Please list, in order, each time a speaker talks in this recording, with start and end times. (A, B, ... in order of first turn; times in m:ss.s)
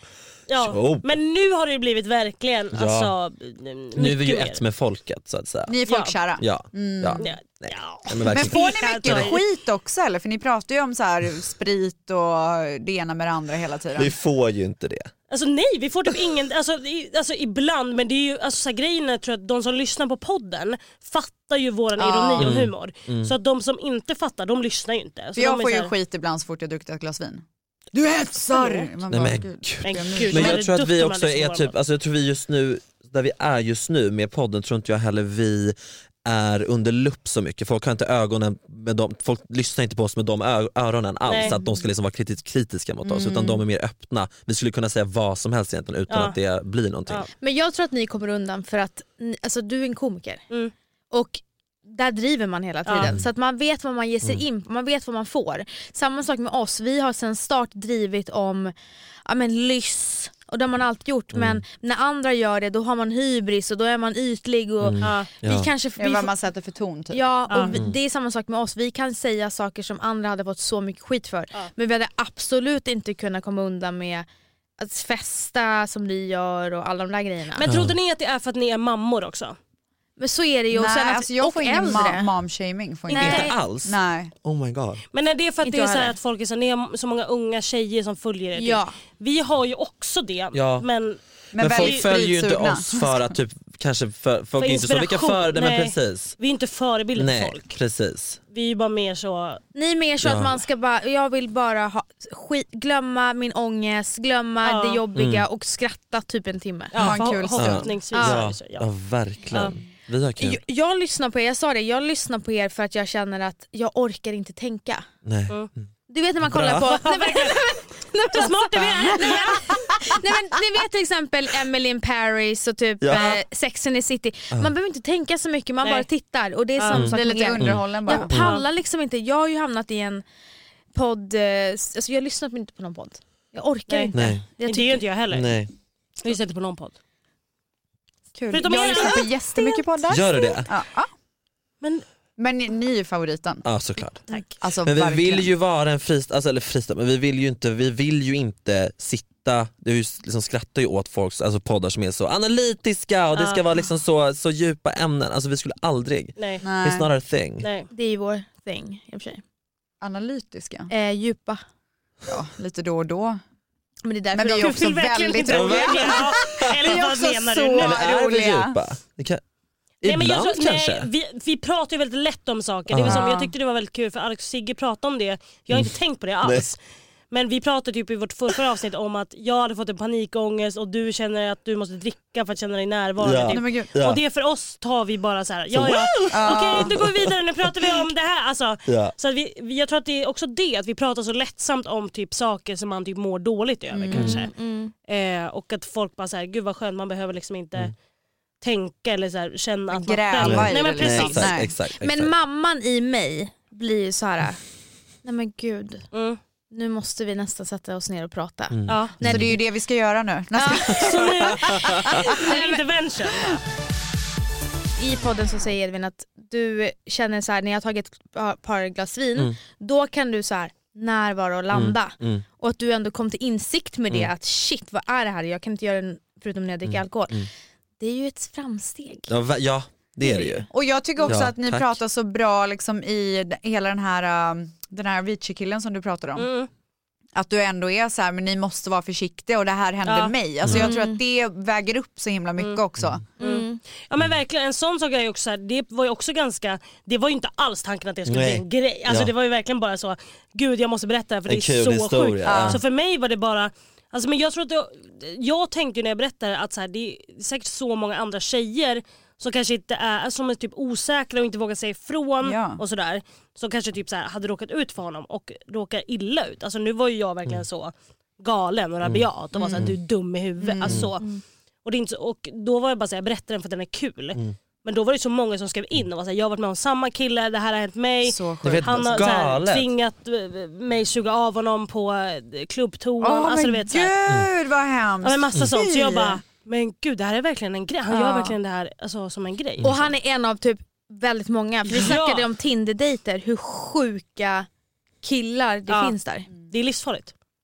0:00.5-0:04.6 A
0:00.6-0:01.1 B
0:02.7-0:03.1 B
0:04.0-0:05.8 B
0:05.6-0:07.3 C
0:05.9-0:06.1 A
0:06.4-0:09.3 B
0:07.2-0:09.4 A
0:08.2-0:14.1 C
0:14.0-0:15.1 B
0:15.3-0:25.9 A
0:22.0-0:22.6 C
0:22.4-0:23.3 B
0:25.4-0:30.6 C
0:28.5-0:28.9 A
0:29.1-0:47.3 B
0:29.8-0:31.7 A
0:41.2-0:41.6 A
0:41.4-0:41.8 C
0:43.0-0:43.6 C
0:46.1-0:46.4 A
0:47.4-0:50.4 D
0:51.1-0:58.7 D
0:52.8-0:53.1 A
0:53.0-0:53.2 B
0:59.2-1:06.3 D
1:01.3-1:01.6 B
1:04.8-1:05.7 B
1:05.0-1:05.3 A
1:06.0-1:07.8 C
1:07.1-1:14.2 D
1:07.5-1:07.8 A
1:14.8-1:17.7 D
1:17.6-1:19.6 A
1:17.7-1:18.0 B
1:20.2-1:22.3 D
1:20.7-1:24.3 C
1:23.1-1:23.5 D
1:23.1-1:25.0 B
1:25.1-1:31.2 A
1:25.6-1:26.2 D
1:28.6-1:28.9 D
1:30.5-1:30.9 B
1:31.5-1:33.4 C
1:31.6-1:36.4 B
1:31.7-1:32.0 A
1:34.6-1:37.8 A
1:37.1-1:38.4 B
1:38.5-1:39.6 A
1:39.7-1:47.0 D
1:40.2-1:40.6 B
1:44.6-1:45.0 A
1:45.1-1:45.4 B
1:46.9-1:48.9 A
1:47.0-1:47.9 C
1:47.0-1:50.6 B
1:48.1-1:48.4 D
1:50.4-1:55.0 D
1:55.2-1:55.9 B
1:56.1-2:10.2 D
1:56.4-1:56.9 B
1:56.9-1:57.6 A
1:58.3-1:59.9 A
2:03.0-2:03.4 B
2:05.8-2:06.1 A
2:06.8-2:07.1 A
2:06.9-2:08.6 B
2:07.1-2:08.3 C
2:08.3-2:08.6 A
2:10.9-2:15.0 D
2:13.9-2:15.5 A
2:14.1-2:14.4 B
2:15.3-2:15.7 B
2:16.2-2:16.9 A
2:18.3-2:21.1 C
2:18.5-2:20.5 A
2:18.6-2:19.3 D
2:20.1-2:20.7 B
2:22.4-2:23.6 C
2:23.6-2:24.2 B
2:24.3-2:24.5 A
2:24.6-2:25.5 C
2:24.8-2:37.7 B
2:33.3-2:33.6 A
2:36.4-2:36.6 A
2:36.6-2:37.1 C
2:37.6-2:37.9 A
2:37.9-2:39.4 D
2:40.0-2:40.9 C
2:40.9-2:41.6 D
2:42.2-2:43.4 C
2:44.0-2:44.8 D
2:44.3-2:48.8 C
2:44.5-2:48.2 A
2:45.5-2:47.0 B
2:47.8-2:49.4 B
2:50.0-2:51.1 B
2:50.0-2:56.8 A
2:52.9-2:53.3 B
2:53.1-2:53.5 D
2:57.3-3:14.5 A
3:03.2-3:04.2 B
3:03.4-3:03.9 C
3:05.7-3:07.9 B
3:06.3-3:07.0 C
3:08.8-3:09.1 B
3:14.0-3:14.3 C
3:14.0-3:14.9 D
3:14.1-3:14.4 B
3:15.1-3:17.9 A
3:18.6-3:21.5 A
3:19.9-3:21.7 C
3:20.4-3:22.3 B
3:22.0-3:24.6 D
3:25.2-3:26.0 D
3:26.1-3:26.4 A
3:26.7-3:29.4 D
3:28.7-3:29.6 B
3:28.9-3:29.2 A
3:29.2-3:32.3 C
3:30.5-3:30.9 D
3:30.8-3:33.6 A
3:30.9-3:32.3 B
3:32.2-3:32.8 D
3:35.0-3:47.4 D
3:41.7-3:42.4 B
3:46.8-3:47.5 B
3:48.0-3:49.3 D
3:49.3-3:50.7 B
3:50.2-3:50.7 D
3:50.7-3:56.5 C
3:51.3-3:51.9 B
3:56.4-3:56.7 A
3:57.3-4:03.2 C
4:00.0-4:00.3 A
4:00.6-4:00.9 B
4:00.7-4:01.2 D
4:02.6-4:02.8 A
4:03.4-4:03.8 D
4:03.4-4:31.3 A
4:08.2-4:09.3 B
4:11.5-4:12.8 B
4:12.4-4:12.8 C
4:22.4-4:22.8 C
4:29.6-4:29.9 C
4:30.6-4:31.1 C
4:31.8-4:44.1 A
4:38.2-4:39.3 C
4:38.6-4:39.9 B
4:43.2-4:46.4 C
4:45.2-4:49.9 A
4:48.1-4:48.5 C
4:49.8-4:50.1 B
4:49.8-4:54.7 D
4:51.9-4:52.5 A
4:55.2-4:56.5 D
4:55.9-4:56.2 A
4:56.7-4:57.3 A